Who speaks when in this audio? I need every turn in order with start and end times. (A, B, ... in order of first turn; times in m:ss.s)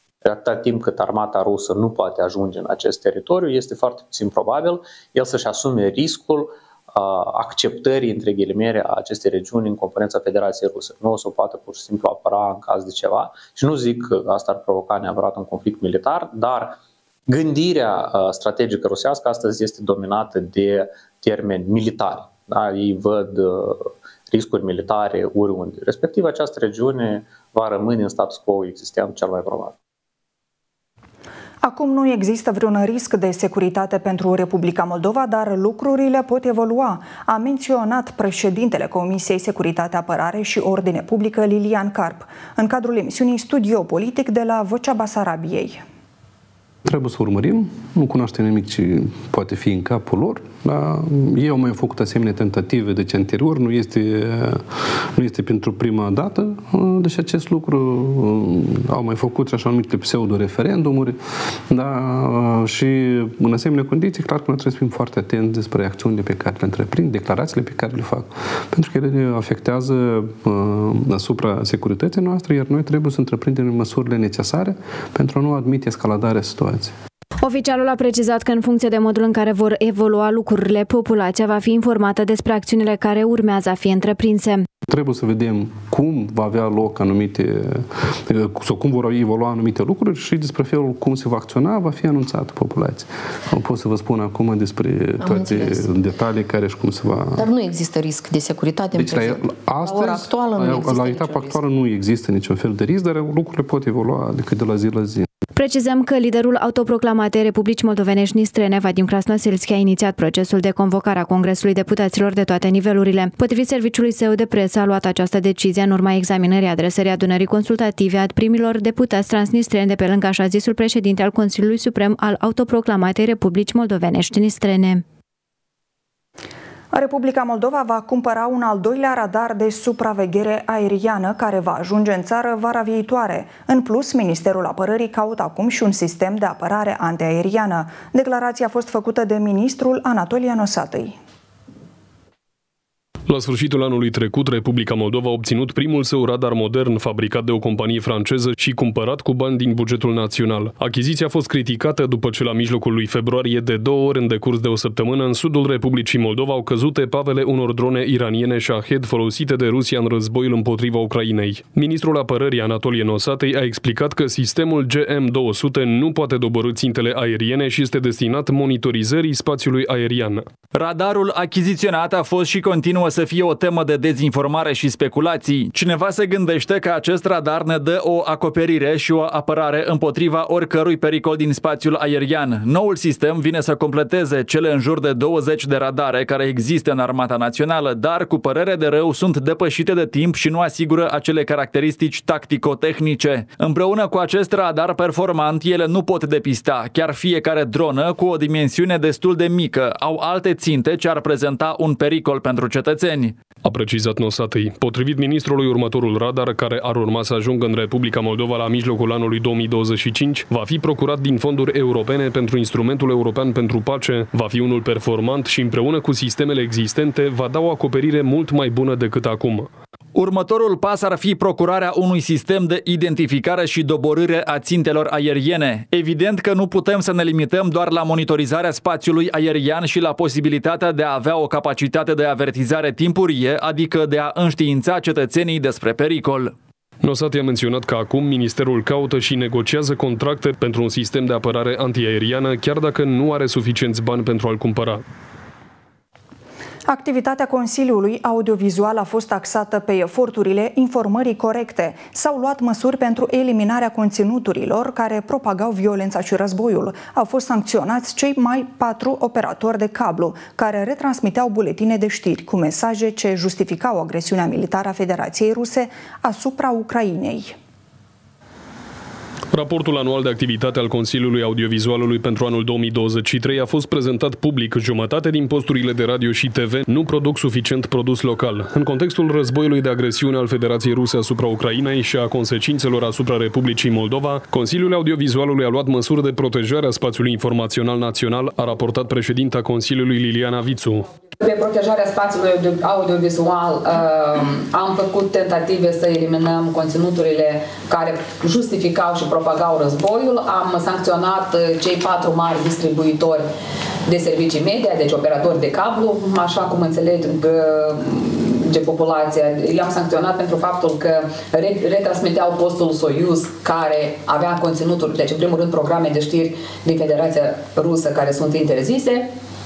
0:00.2-0:29.7 A
0:31.6-0:45.8 B
0:46.8-1:16.9 C
1:17.4-1:24.7 D
1:24.8-1:37.5 C
1:35.2-1:35.8 E
1:37.4-1:41.6 E
1:39.0-1:45.3 C
1:45.6-2:05.0 D
2:06.9-2:21.2 B
2:23.3-2:50.5 F
2:50.7-3:23.4 G
3:23.6-3:39.7 F
3:40.1-3:56.5 G
3:57.0-4:05.0 F
4:06.9-4:27.6 B
4:29.5-4:51.1 F
4:51.4-5:03.5 H
5:04.0-5:19.3 H